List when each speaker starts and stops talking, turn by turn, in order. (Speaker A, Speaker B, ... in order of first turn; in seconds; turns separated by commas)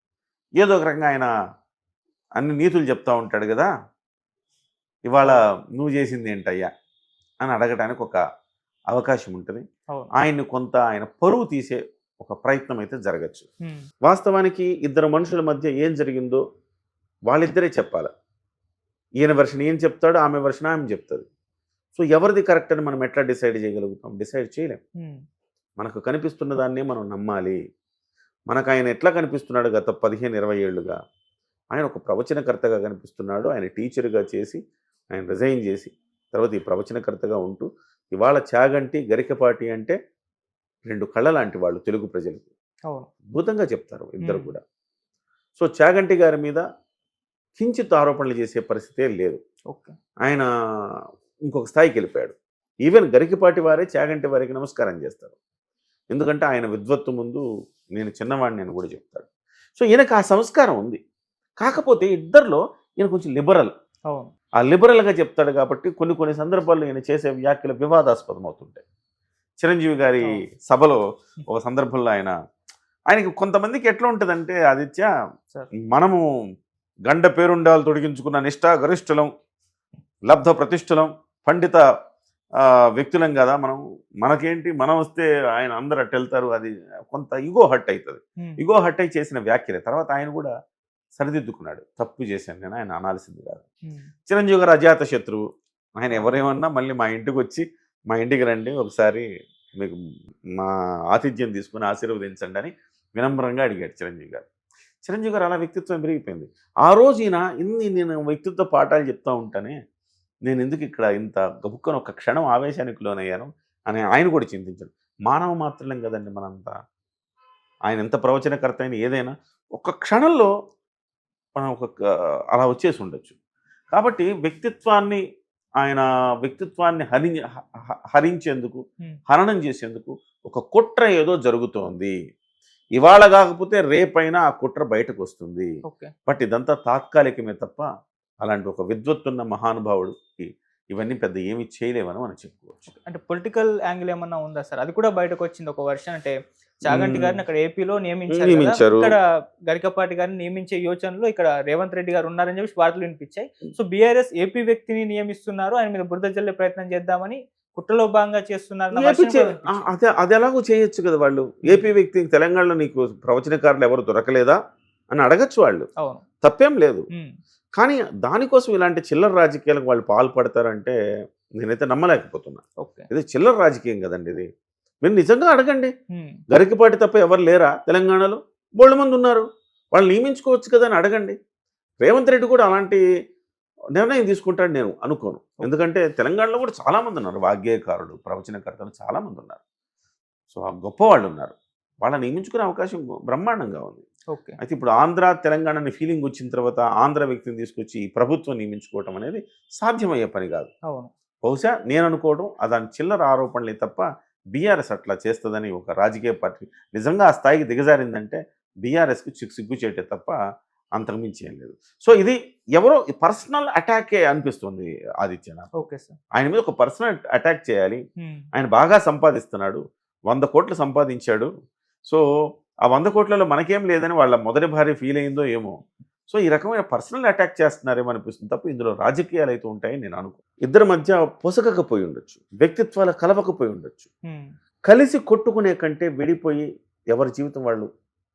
Speaker A: 0.6-1.3, Speaker A: 2.4-3.7, Speaker A: 5.1-6.7, Speaker A: 7.4-8.2, Speaker A: 8.9-9.6, Speaker A: 10.2-13.5, Speaker A: 14.0-16.4, Speaker A: 17.3-18.1, Speaker A: 19.2-21.3, Speaker A: 22.0-24.8, Speaker A: 25.8-27.6, Speaker A: 28.5-31.0, Speaker A: 31.7-34.6, Speaker A: 35.1-40.0, Speaker A: 40.9-42.5, Speaker A: 43.3-44.6, Speaker B: 44.2-44.5, Speaker A: 45.6-46.6, Speaker A: 47.6-49.4, Speaker B: 49.7-50.0, Speaker A: 51.5-55.4, Speaker A: 56.1-57.5, Speaker A: 58.0-59.3, Speaker A: 59.8-61.0, Speaker A: 61.6-63.7, Speaker A: 64.6-68.8, Speaker A: 69.6-72.3, Speaker A: 73.1-75.1, Speaker A: 75.9-76.2, Speaker A: 77.1-79.3, Speaker A: 80.3-81.8, Speaker A: 82.6-90.5, Speaker A: 91.2-93.6, Speaker A: 94.3-95.4, Speaker A: 96.0-99.3, Speaker A: 100.6-104.5, Speaker A: 105.0-109.8, Speaker A: 110.5-116.8, Speaker A: 117.9-120.5, Speaker A: 121.6-122.0, Speaker A: 122.5-123.4, Speaker A: 123.9-125.2, Speaker A: 125.8-127.4, Speaker A: 128.1-132.1, Speaker A: 133.0-135.7, Speaker B: 135.8-136.1, Speaker A: 136.3-137.9, Speaker A: 138.4-140.4, Speaker A: 140.9-142.9, Speaker B: 142.9-159.9, Speaker A: 146.9-147.4, Speaker A: 148.3-149.2, Speaker A: 159.0-164.6, Speaker A: 165.1-165.9, Speaker B: 166.0-166.2, Speaker A: 166.4-167.1, Speaker A: 167.8-171.0, Speaker A: 171.6-174.5, Speaker B: 172.8-173.1, Speaker A: 175.0-175.9, Speaker B: 176.1-176.4, Speaker A: 176.5-181.4, Speaker A: 182.0-183.0, Speaker A: 184.0-189.6, Speaker A: 190.5-194.1, Speaker B: 194.3-194.6, Speaker A: 194.6-200.7, Speaker A: 201.4-210.4, Speaker A: 211.0-215.7, Speaker B: 215.8-216.2, Speaker A: 216.4-218.0, Speaker B: 218.2-218.4, Speaker A: 218.5-221.5, Speaker A: 222.9-225.8, Speaker A: 226.3-234.1, Speaker A: 234.9-237.9